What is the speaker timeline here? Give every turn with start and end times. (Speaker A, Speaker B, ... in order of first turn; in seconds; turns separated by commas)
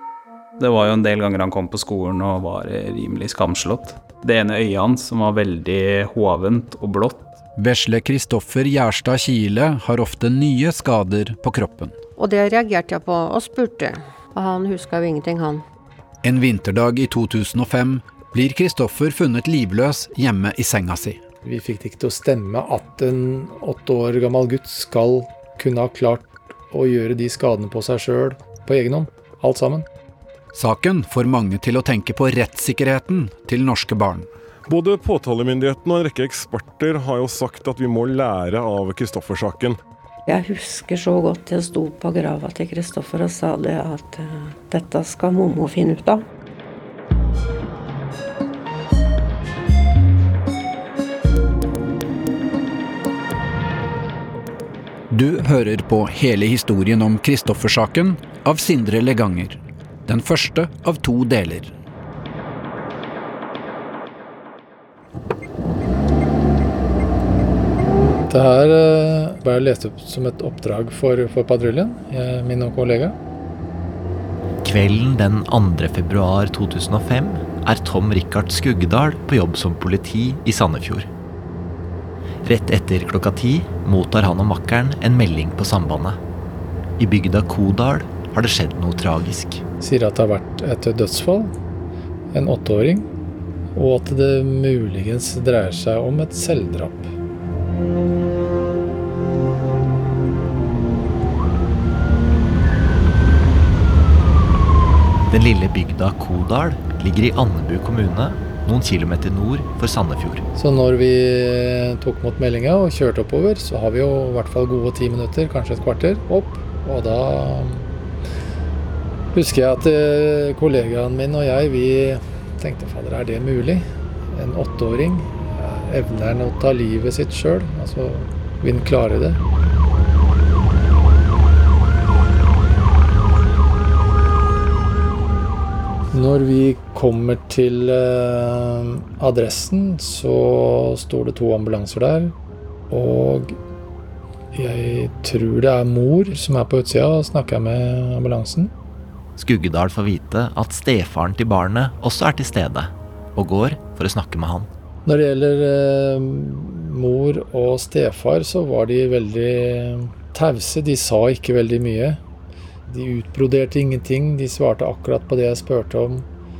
Speaker A: 0.6-7.3, Speaker B: 7.6-11.9, Speaker C: 12.2-15.6, Speaker B: 16.2-21.2, Speaker D: 21.4-29.9, Speaker B: 30.5-34.3, Speaker E: 34.7-39.8, Speaker C: 40.3-46.2, Speaker B: 55.1-61.7, Speaker D: 68.3-73.2, Speaker F: 74.6-81.1, Speaker F: 82.4-86.2, Speaker F: 87.0-89.6, Speaker D: 89.8-91.5, Speaker D: 92.3-93.1, Speaker D: 93.7-97.1, Speaker F: 105.3-110.5, Speaker D: 110.6-117.9, Speaker D: 119.3-129.4, Speaker D: 136.1-142.3, Speaker D: 142.9-143.5, Speaker D: 144.5-148.7, Speaker F: 149.4-154.7, Speaker D: 155.0-162.2, Speaker D: 162.9-166.2